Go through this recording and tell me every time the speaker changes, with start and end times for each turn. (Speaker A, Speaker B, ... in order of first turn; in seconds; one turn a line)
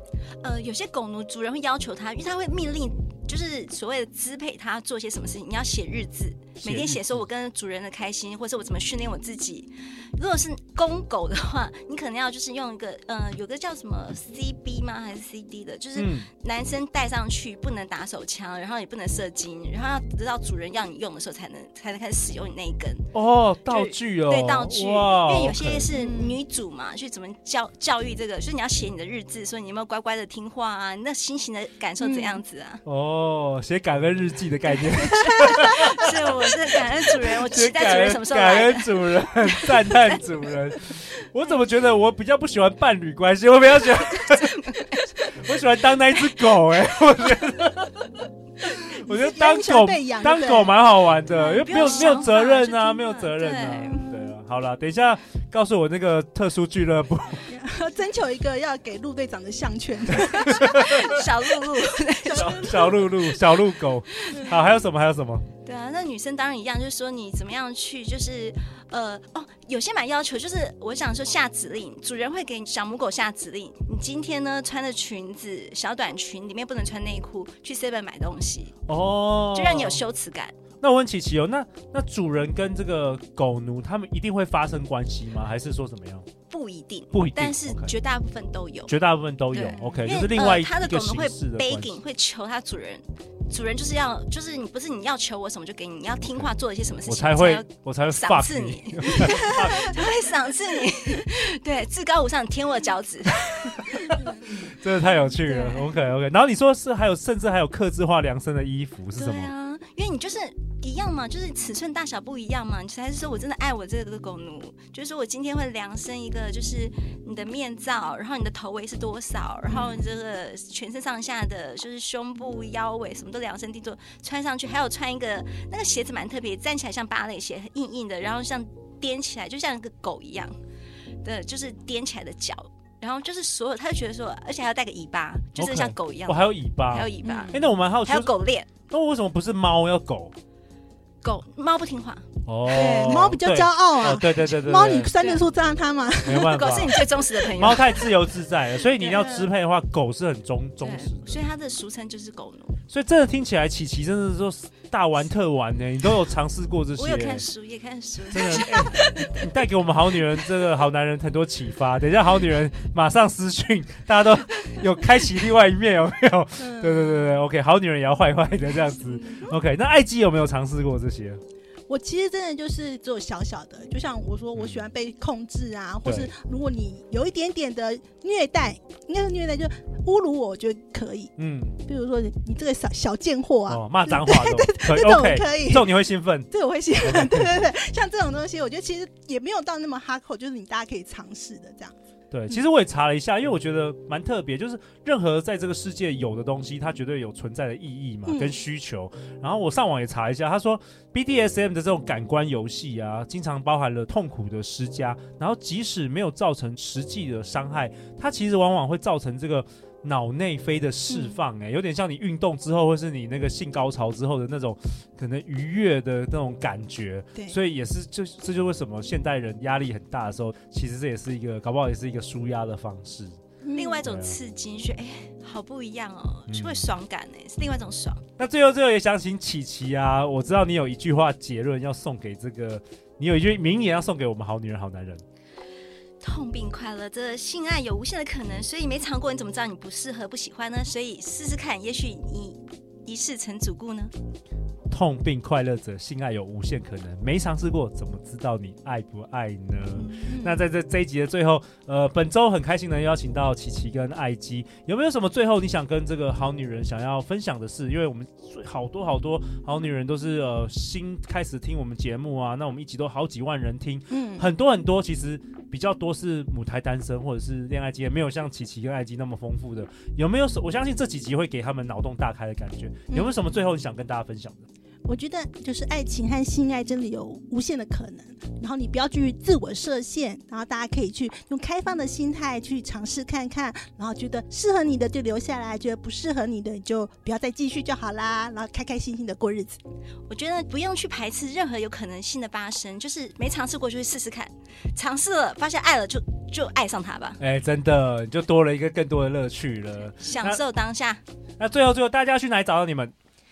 Speaker A: 0.4-23.1
Speaker B: 6.6-7.1
Speaker B: 16.0-16.3
Speaker B: 23.1-25.9
Speaker A: 23.6-32.8
Speaker C: 25.9-26.4
Speaker C: 32.0-32.4
Speaker B: 32.9-36.1
Speaker A: 35.2-40.3
Speaker B: 37.1-57.5
Speaker A: 44.2-45.1
Speaker C: 49.0-50.8
Speaker A: 51.2-54.3
Speaker C: 57.5-61.5
Speaker B: 60.2-61.1
Speaker A: 60.5-62.8
Speaker C: 62.2-63.2
Speaker B: 62.3-65.5
Speaker C: 64.3-64.6
Speaker A: 65.6-78.8
Speaker B: 78.9-80.0
Speaker A: 79.4-80.5
Speaker B: 80.8-86.3
Speaker A: 86.5-88.9
Speaker B: 87.1-87.9
Speaker B: 88.9-92.0
Speaker A: 89.5-104.2
Speaker C: 89.7-90.1
Speaker B: 97.0-100.0
Speaker B: 103.5-109.5
Speaker A: 105.4-105.8
Speaker A: 109.2-130.6
Speaker C: 119.7-120.0
Speaker A: 131.2-138.7
Speaker B: 135.6-138.3
Speaker C: 137.2-137.6
Speaker B: 138.9-140.3
Speaker A: 141.2-142.3
Speaker B: 142.4-145.2
Speaker C: 142.6-146.8
Speaker A: 145.1-145.4
Speaker B: 146.2-151.4
Speaker A: 146.3-148.1
Speaker A: 149.0-149.4
Speaker A: 150.8-152.8
Speaker B: 152.9-157.4
Speaker A: 157.0-159.1
Speaker B: 158.3-171.4
Speaker C: 166.6-167.3
Speaker C: 169.1-169.5
Speaker C: 171.9-181.3
Speaker B: 174.6-174.9
Speaker B: 176.1-176.3
Speaker B: 181.4-181.8
Speaker C: 181.8-186.0
Speaker B: 183.7-186.5
Speaker C: 186.5-191.9
Speaker B: 187.0-187.6
Speaker B: 192.3-223.4
Speaker C: 198.3-198.6
Speaker C: 223.6-224.1
Speaker A: 223.7-228.2
Speaker B: 224.0-224.4
Speaker B: 226.5-226.9
Speaker B: 228.4-235.2
Speaker A: 236.2-244.1
Speaker B: 244.9-274.6
Speaker A: 249.9-250.6
Speaker C: 264.1-264.5
Speaker C: 275.1-289.8
Speaker A: 290.3-297.4
Speaker B: 297.4-300.6
Speaker A: 300.2-301.2
Speaker B: 301.6-303.1